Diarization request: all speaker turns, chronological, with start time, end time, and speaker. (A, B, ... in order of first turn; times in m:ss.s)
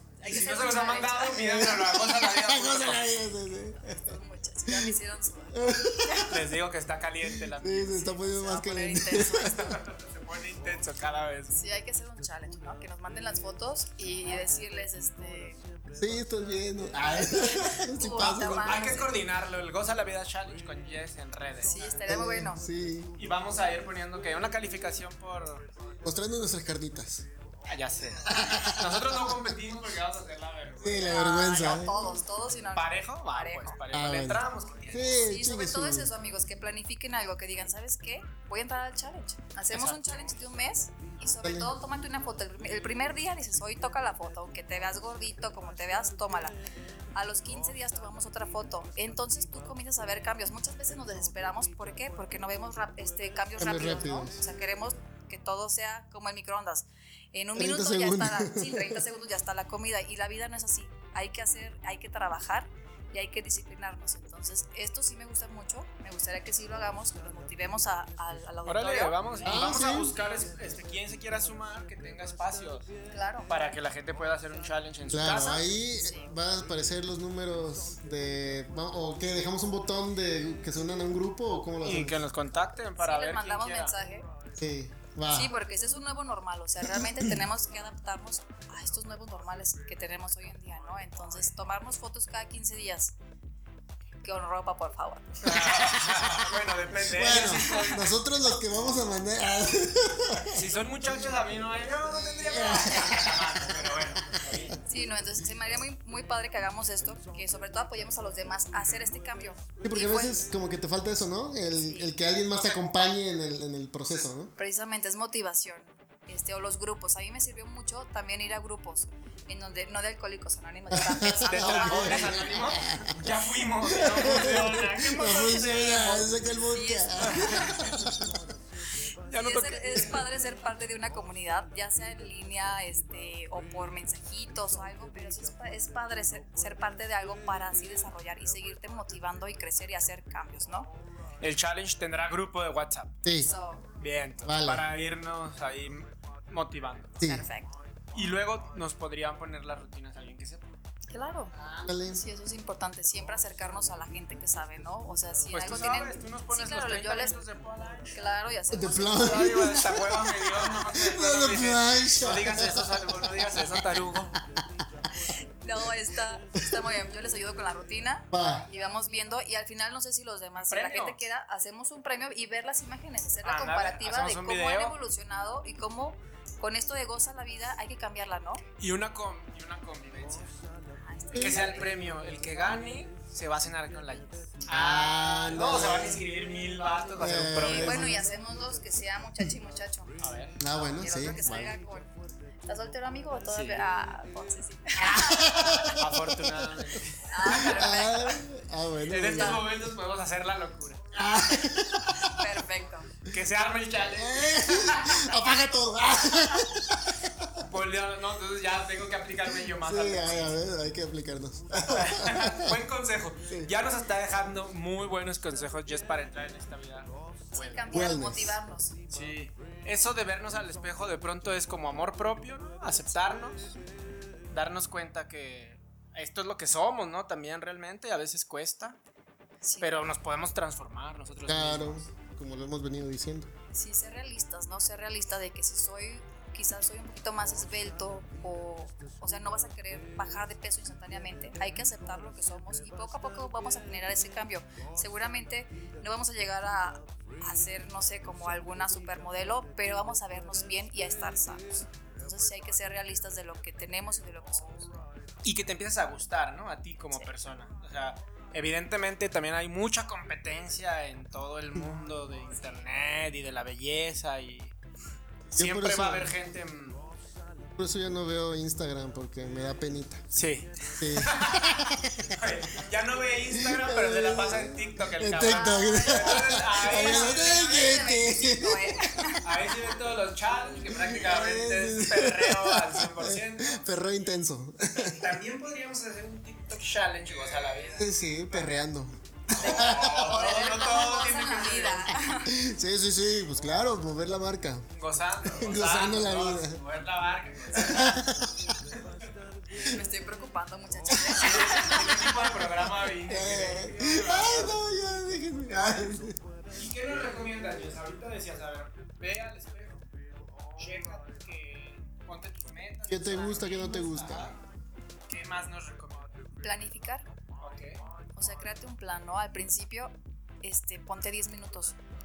0:00.2-0:01.6 A
0:00.2-0:03.1 B
0:01.3-0:04.1 C
0:03.8-0:06.3 A
0:04.7-0:05.0 C
0:05.5-0:06.5 C
0:06.3-0:08.1 B
0:07.2-0:09.8 C
0:08.2-0:09.7 A
0:09.4-0:11.5 B
0:11.5-0:15.6 A
0:16.0-0:18.9 C
0:17.0-0:19.1 A
0:18.2-0:21.9 B
0:21.6-0:22.6 A
0:21.9-0:23.2 C
0:23.2-0:26.0 B
0:26.0-0:27.2 C
0:27.7-0:31.8 B
0:28.2-0:29.4 C
0:30.8-0:32.0 C
0:31.0-0:33.8 A
0:32.7-0:35.2 B
0:33.9-0:36.1 C
0:35.2-0:46.6 A
0:39.7-0:40.4 B
0:41.4-0:41.7 C
0:47.1-1:09.2 A
0:53.6-0:54.4 C
0:57.6-0:59.0 C
1:08.6-1:12.9 B
1:09.4-1:10.1 C
1:13.1-1:13.5 A
1:13.5-1:15.7 B
1:15.1-1:22.2 C
1:16.0-1:16.3 A
1:21.8-1:24.0 B
1:23.0-1:24.3 A
1:24.6-1:25.5 C
1:25.3-1:33.2 A
1:26.8-1:27.4 C
1:34.2-1:35.7 A
1:35.4-1:38.1 B
1:37.0-1:40.6 C
1:40.5-1:44.8 B
1:42.2-1:44.4 C
1:44.9-1:50.4 A
1:49.8-1:54.5 C
1:51.8-1:52.1 A
1:54.6-2:02.4 A
2:00.9-2:03.2 C
2:01.4-2:06.3 B
2:03.8-2:08.4 C
2:06.7-2:07.9 A
2:07.2-2:07.9 B
2:09.3-2:10.2 B
2:09.3-2:20.9 A
2:21.4-2:23.2 B
2:23.2-2:23.5 C
2:23.4-2:23.9 A
2:24.0-2:27.2 B
2:24.4-2:24.9 C
2:27.2-2:27.5 C
2:27.3-2:27.8 A
2:28.1-2:30.7 B
2:31.1-2:31.5 A
2:31.6-2:31.9 B
2:31.8-2:32.2 C
2:32.1-2:37.4 A
2:35.5-2:38.1 B
2:38.1-2:40.7 A
2:38.7-2:39.9 C
2:39.2-2:44.4 B
2:40.9-2:42.9 C
2:45.6-2:58.6 A
2:48.3-2:48.6 C
2:50.7-2:51.2 B
2:53.4-2:54.9 B
2:58.8-3:00.5 B
3:00.9-3:01.9 A
3:01.3-3:01.8 C
3:01.3-3:08.2 B
3:04.7-3:06.2 C
3:07.2-3:08.3 C
3:07.6-3:10.2 A
3:10.2-3:10.6 B
3:10.6-3:11.8 C
3:11.0-3:12.1 A
3:12.6-3:15.9 A
3:13.5-3:13.8 B
3:15.0-3:16.8 C
3:15.9-3:17.2 B
3:17.3-3:18.4 A
3:17.4-3:19.7 C
3:19.1-3:21.0 B
3:19.3-3:19.6 A
3:21.1-3:22.3 C
3:22.2-3:23.1 A
3:23.3-3:25.4 B
3:24.1-3:27.6 C
3:27.6-3:30.6 B
3:29.8-3:32.8 C
3:31.9-3:37.9 B
3:37.5-3:38.9 A
3:37.9-3:38.6 C
3:39.1-3:43.8 B
3:44.5-3:49.0 B
3:49.6-3:50.0 A
3:49.8-3:52.0 B
3:51.4-3:53.5 C
3:53.7-4:14.9 A
4:15.4-4:24.7 B
4:25.5-4:27.0 B
4:25.5-4:26.3 C
4:27.8-4:30.2 C
4:30.3-4:38.2 B
4:31.0-4:32.3 C
4:33.5-4:39.0 C
4:35.4-4:39.6 A
4:39.4-4:43.9 B
4:40.9-4:45.2 C
4:45.0-4:48.8 B
4:47.7-4:50.3 C
4:49.5-4:52.1 B
4:49.6-4:52.6 A
4:52.4-4:54.9 C
4:55.0-4:58.2 B
4:55.4-4:56.8 C
4:57.7-4:58.8 C
4:59.8-5:02.2 A
5:01.1-5:04.8 B
5:03.3-5:06.4 C
5:06.8-5:10.0 B
5:10.8-5:14.6 B
5:13.1-5:14.5 C
5:15.3-5:16.4 B
5:16.6-5:17.3 A
5:17.6-5:18.0 B
5:18.4-5:22.0 A